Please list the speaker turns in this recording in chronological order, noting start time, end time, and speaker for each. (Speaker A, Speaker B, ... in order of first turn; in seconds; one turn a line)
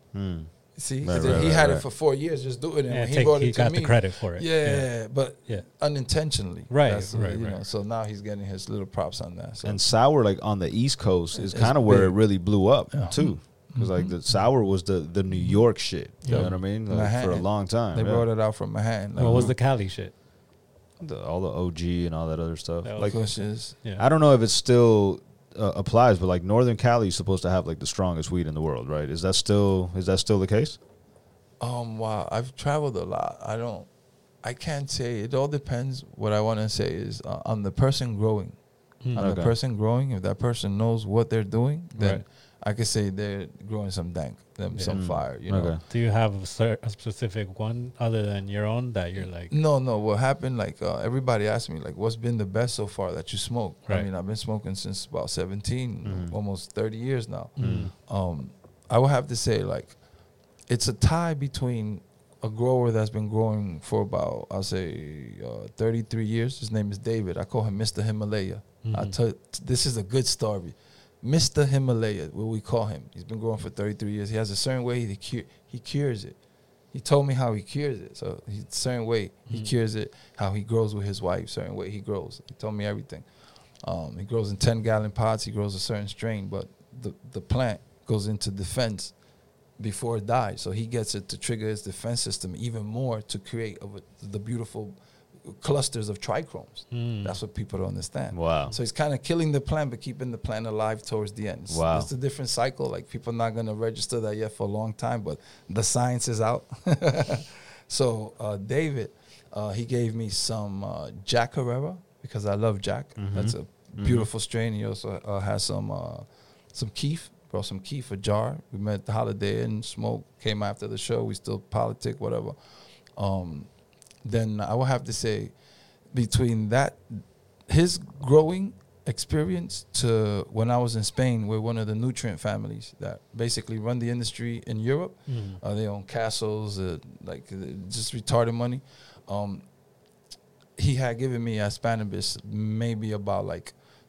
Speaker A: 0.1-1.9
Speaker B: 0.7-9.9
Speaker C: 2.9-5.7
Speaker C: 6.7-7.6
Speaker A: 9.6-18.3
Speaker B: 11.3-14.3
Speaker B: 15.3-19.6
Speaker C: 16.2-16.6
Speaker C: 19.2-20.1
Speaker A: 19.2-19.5
Speaker A: 21.0-30.8
Speaker C: 22.8-24.0
Speaker B: 23.0-23.8
Speaker B: 31.6-33.9
Speaker B: 34.4-45.8
Speaker A: 39.1-39.5
Speaker C: 42.0-42.2
Speaker C: 44.7-49.5
Speaker A: 44.9-45.8
Speaker B: 49.5-60.0
Speaker A: 56.0-56.3
Speaker C: 57.6-57.9
Speaker A: 57.6-57.9
Speaker B: 60.6-76.4
Speaker C: 68.8-69.2
Speaker B: 76.9-83.3
Speaker B: 83.8-89.2
Speaker B: 89.8-122.5
Speaker C: 96.9-97.4
Speaker A: 98.3-98.7
Speaker A: 101.7-102.1
Speaker A: 113.2-114.3
Speaker B: 123.2-125.6
Speaker B: 126.1-139.6
Speaker C: 135.3-135.6
Speaker B: 140.8-143.7